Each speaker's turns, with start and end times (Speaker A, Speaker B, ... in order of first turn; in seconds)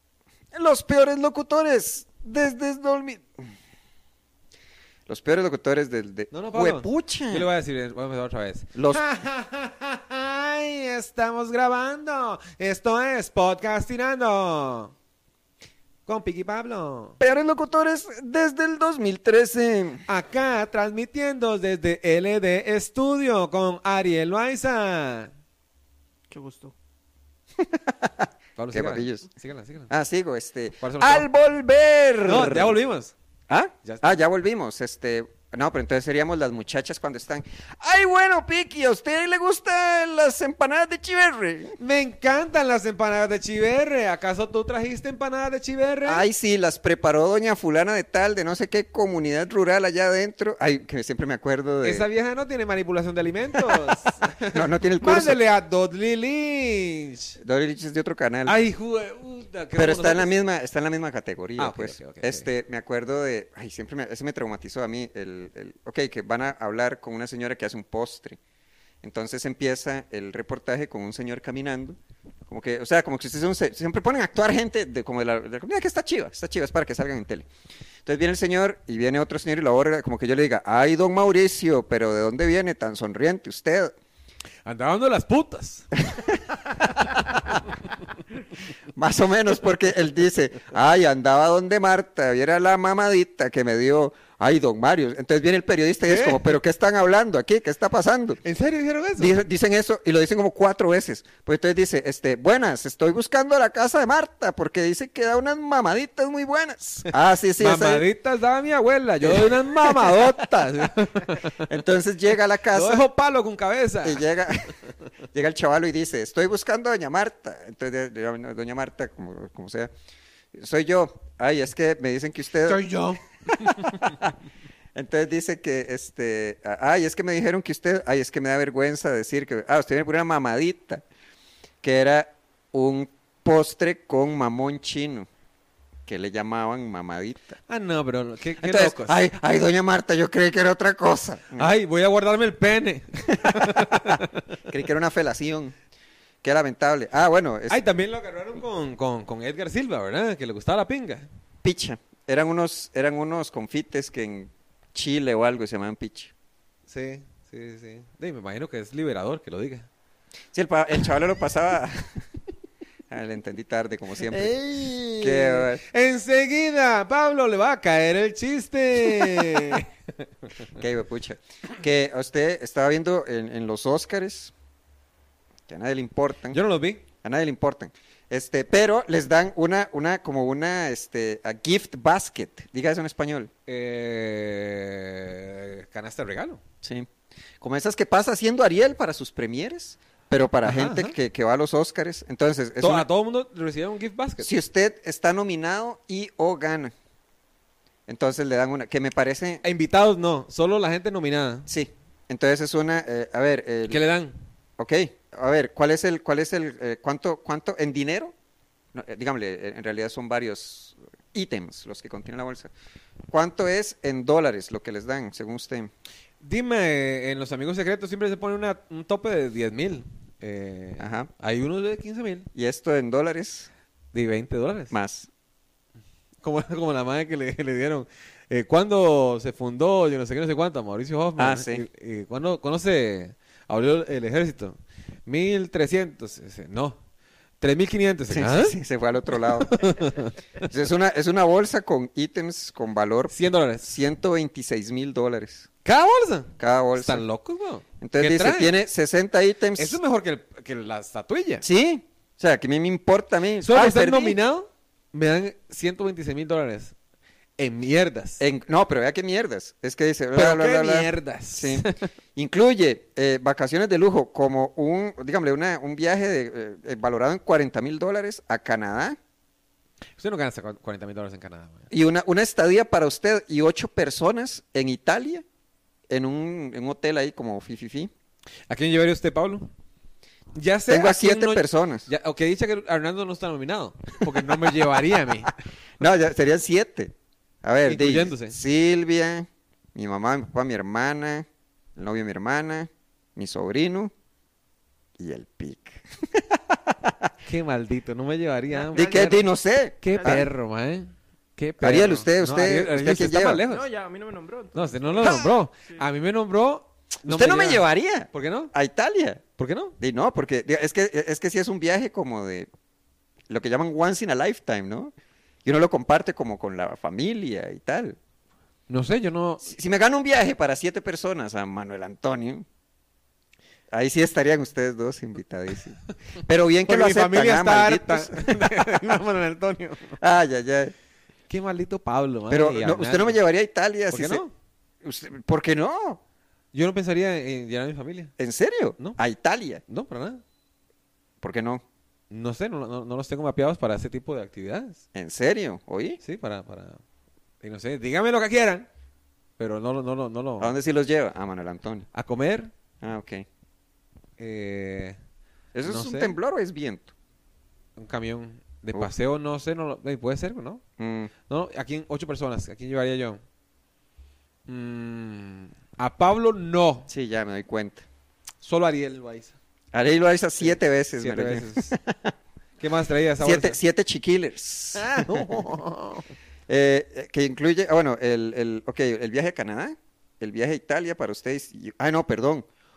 Speaker A: 0.5-3.3, 5.1-7.5, 8.7-9.0, 17.2-20.1, 27.6-29.3, 29.9-32.8, 33.5-41.8, 46.0-52.1, 54.5-55.4, 57.4-58.6, 59.7-68.4, 69.0-77.5, 78.0-83.9, 86.1-86.4, 88.9-98.4, 99.2-108.0, 109.2-110.4, 111.6-113.0, 114.0-114.7, 115.3-119.9, 120.5-123.0, 123.5-124.3, 124.9-131.0, 131.8-135.3, 136.1-137.6, 138.6-141.7, 143.4-144.1, 144.7-145.7, 146.4-147.8, 151.6-156.3, 160.5-162.2, 163.1-164.5, 165.2-165.8, 169.1-169.4, 170.7-174.5, 175.7-176.6, 177.2-183.5, 186.8-187.1, 187.6-193.1, 194.4-196.9, 198.1-199.6, 201.7-204.0, 204.8-208.3, 208.9-212.7, 213.3-215.9, 221.0-221.3, 222.5-223.7, 224.9-225.3, 231.4-231.8, 238.3-239.9, 240.6-245.7, 246.6-247.2, 248.0-250.0, 251.6-254.4, 258.4-269.2, 271.9-275.4, 276.1-278.1, 280.9-282.1, 285.5-294.1, 295.2-297.3, 298.9-300.4, 301.8-303.6, 305.2-305.5, 307.3-309.4, 310.0-312.7, 313.5-315.1, 315.6-318.2, 319.6-322.6, 323.9-328.8, 330.2-330.9, 332.5-334.4, 335.0-336.2, 338.4-339.8, 341.4-341.8, 345.1-346.2, 350.6-352.1, 353.0-353.4, 355.7-357.1, 361.0-361.3, 367.1-368.1, 369.9-372.3, 373.4-375.6, 376.7-382.6
Speaker B: 6.3-14.9, 16.1-17.2, 20.1-25.3, 28.6-29.9, 30.8-31.2, 32.2-33.1, 33.8-34.1, 41.8-46.2, 51.8-57.4, 58.5-60.3, 61.6-62.5, 84.6-86.0, 87.0-87.4, 96.0-96.5, 98.4-99.3, 107.6-111.7, 112.7-114.3, 122.6-124.1, 137.7-139.2, 141.6-144.4, 147.7-151.3, 156.9-159.9, 164.2-169.9, 176.5-177.0, 183.7-186.6, 190.6-191.1, 192.8-194.5, 199.6-201.7, 203.9-204.4, 216.4-222.5, 224.1-224.9, 226.4-237.0, 237.6-238.8, 239.6-240.3, 243.3-243.9, 245.8-248.7, 249.8-251.6, 253.6-256.9, 257.6-258.4, 260.3-262.1, 270.2-271.9, 278.7-279.7, 280.5-285.5, 287.8-288.6, 297.4-299.4, 300.0-303.8, 304.7-308.7, 309.6-310.0, 318.9-319.6, 326.9-330.2, 331.5-333.4, 334.1-334.5, 336.7-338.3, 339.9-340.4, 342.3-345.0, 346.2-347.0, 347.6-348.9, 349.6-350.7, 352.1-352.7, 354.4-355.2, 355.8-356.4, 358.0-360.8, 361.5-363.4, 364.7-367.1, 368.6-369.6, 370.6-371.9, 372.8-373.8, 374.9-376.3
Speaker C: 26.3-26.7, 298.7-299.5, 300.0-300.4, 303.7-305.4